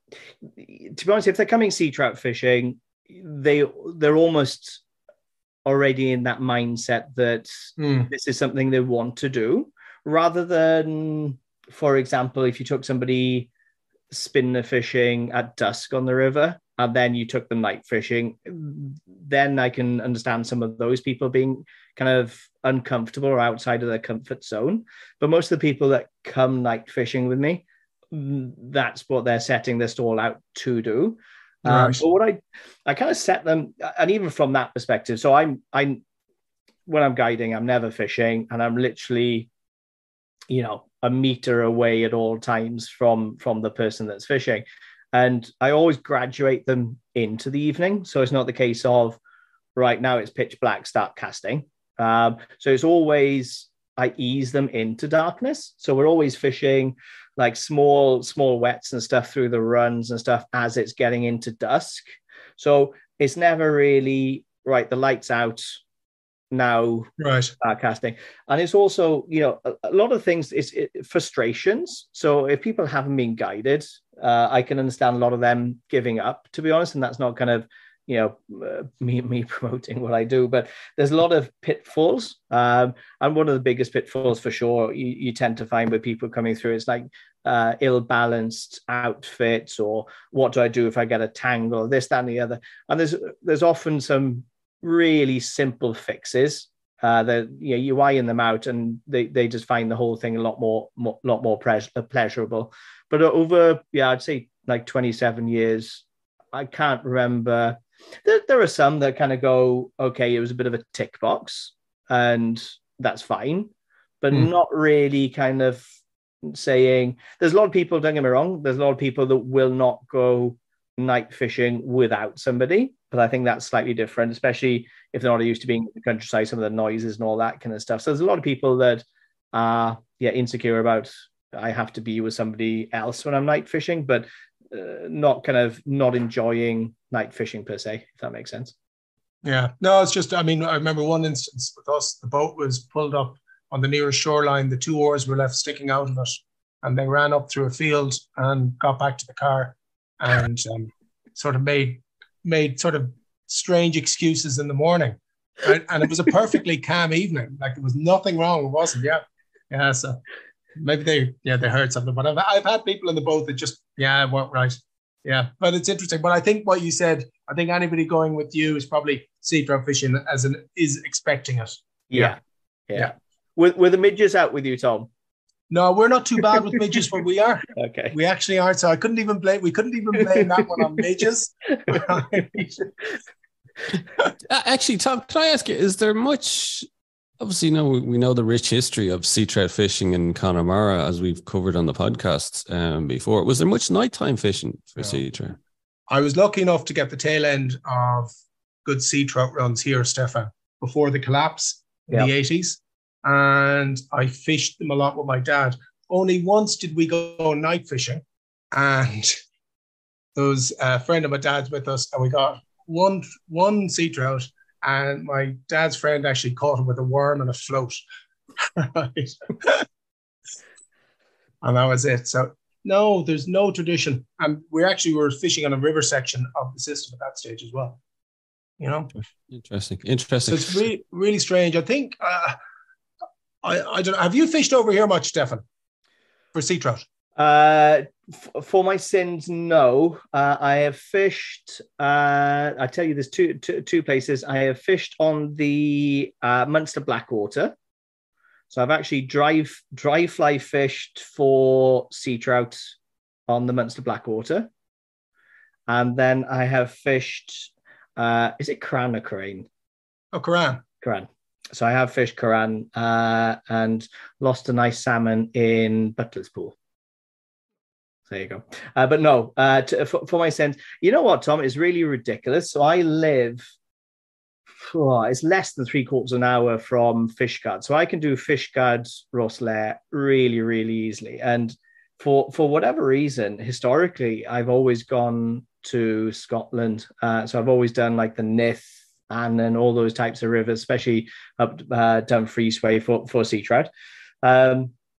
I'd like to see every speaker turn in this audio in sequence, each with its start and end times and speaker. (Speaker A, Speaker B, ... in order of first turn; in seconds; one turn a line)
Speaker A: 0.6-4.8
Speaker A: 5.7-13.5
Speaker B: 7.8-8.1
Speaker A: 14.1-36.0
Speaker B: 31.6-32.0
Speaker A: 36.9-39.5
Speaker A: 40.5-49.2
Speaker A: 49.8-62.0
Speaker A: 62.6-65.8
Speaker A: 66.5-115.8
Speaker B: 67.2-67.5
Speaker A: 116.4-138.7
Speaker B: 139.4-160.2
Speaker B: 160.8-172.3
Speaker A: 172.1-175.1
Speaker B: 175.7-182.8
Speaker A: 177.8-178.2
Speaker C: 184.5-186.9
Speaker C: 187.4-195.6
Speaker B: 196.1-198.3
Speaker B: 198.8-209.4
Speaker B: 210.3-218.0
Speaker B: 218.6-219.9
Speaker B: 221.6-228.0
Speaker B: 228.8-229.1
Speaker C: 229.5-230.8
Speaker B: 230.5-232.6
Speaker B: 233.6-235.6
Speaker B: 236.5-237.0
Speaker A: 237.4-247.8
Speaker A: 248.7-252.9
Speaker A: 253.5-254.7
Speaker A: 255.9-259.7
Speaker B: 260.3-260.8
Speaker A: 261.0-266.8
Speaker A: 268.3-273.7
Speaker A: 274.8-293.9
Speaker A: 294.4-294.9